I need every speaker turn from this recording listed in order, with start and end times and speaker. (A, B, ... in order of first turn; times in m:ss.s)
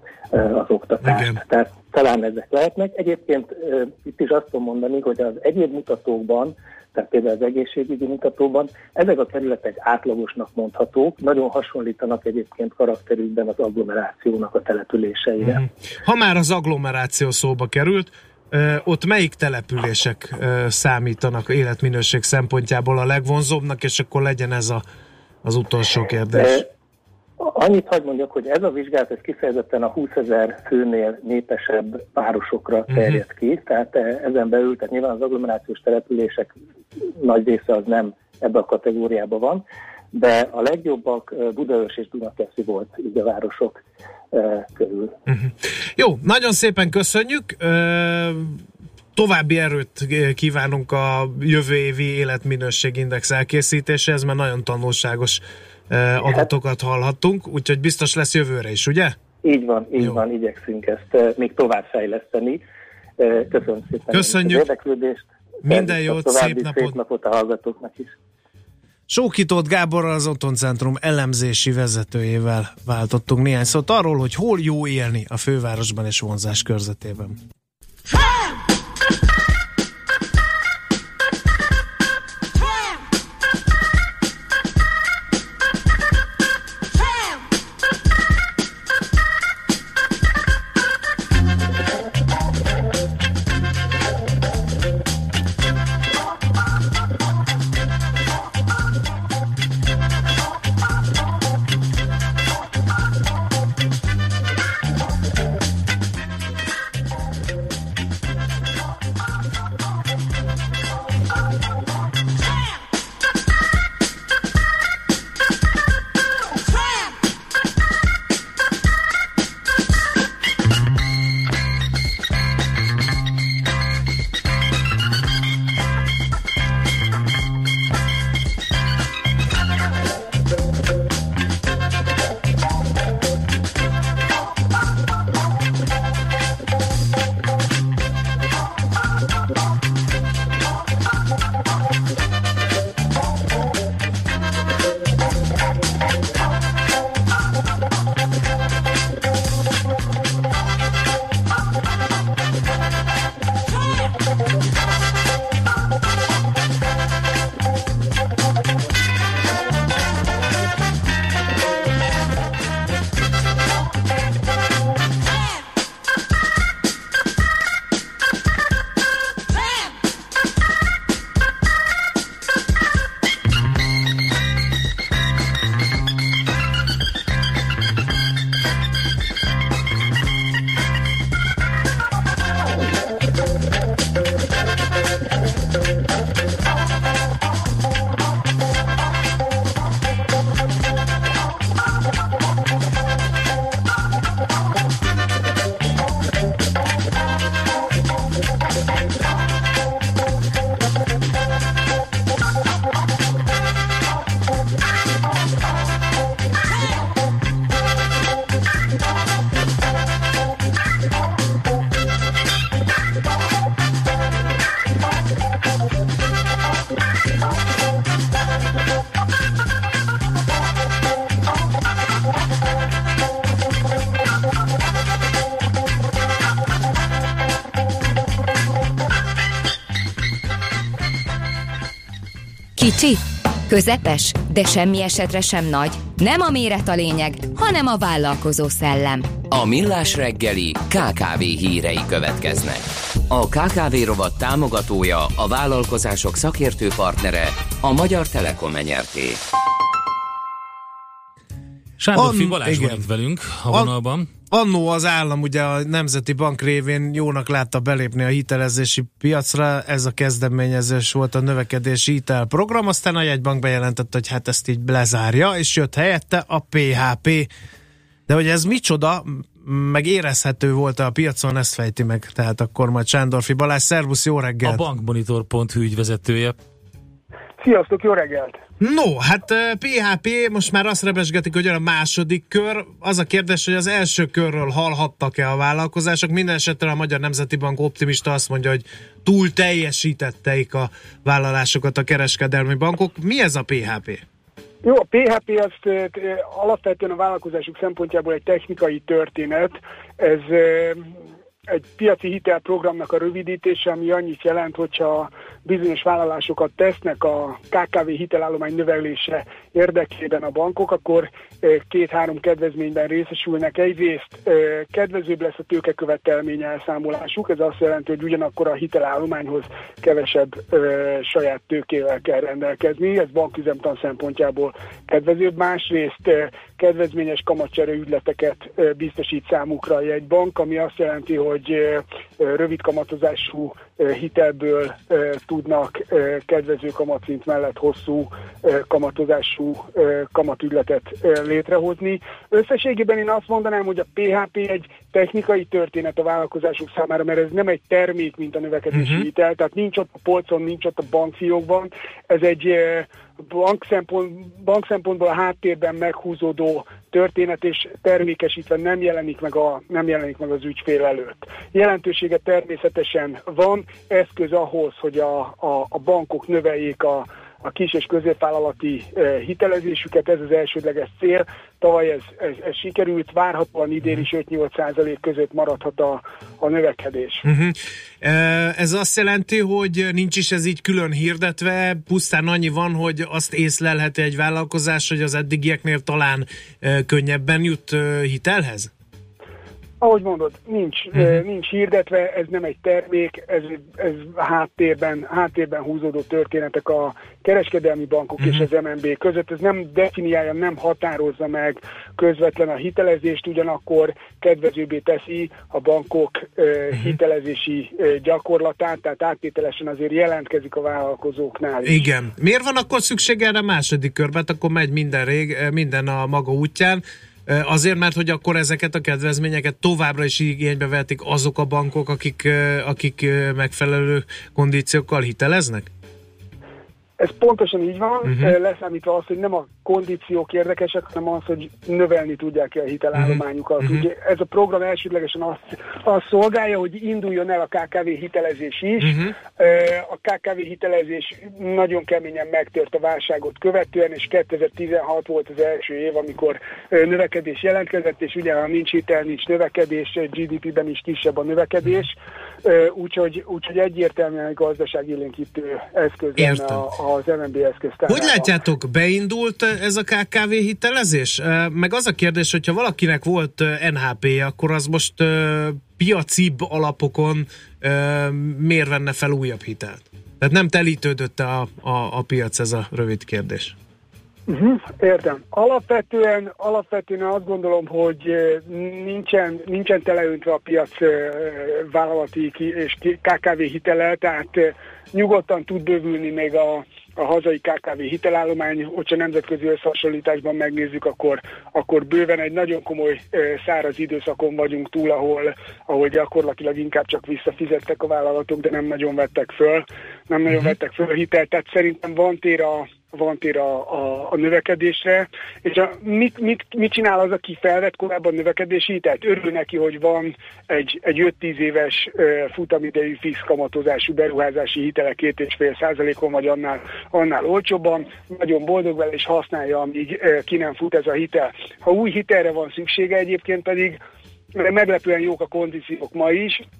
0:00.3-0:15.6 A
0:15.4-0:24.8 B
0:25.4-0:26.6 B
0:26.3-0:26.6 A
0:27.4-0:36.5 A
0:32.9-0:33.2 B
0:37.2-0:43.8 A
0:44.3-0:45.2 A
0:45.3-0:48.6 B
0:49.2-0:59.2 B
0:56.2-0:56.5 A
0:59.4-1:02.6 A
1:03.2-1:08.2 A
1:04.1-1:04.6 B
1:05.6-1:07.0 B
1:09.1-1:17.4 B
3:52.8-3:59.2 C
3:59.5-4:09.4 D
4:12.0-4:14.3 E
4:12.1-4:13.0 B
4:14.5-4:27.5 B
4:28.3-4:34.8 B
4:34.6-4:36.6 E
4:37.6-4:38.6 F
4:38.8-4:54.2 B
4:54.8-5:01.1 F
5:01.7-6:17.4 F
5:48.9-5:49.3 B
6:17.4-6:28.9 B
6:30.0-6:52.0 F
6:31.1-6:31.4 B
6:38.4-6:38.6 B
6:51.8-7:05.9 B
7:07.2-7:38.5 F
7:08.2-7:08.6 B
7:13.1-7:14.0 B
7:19.0-7:19.3 B
7:36.4-7:36.8 B
7:38.1-7:53.8 B
7:54.5-8:44.0 F
8:44.5-8:46.6 F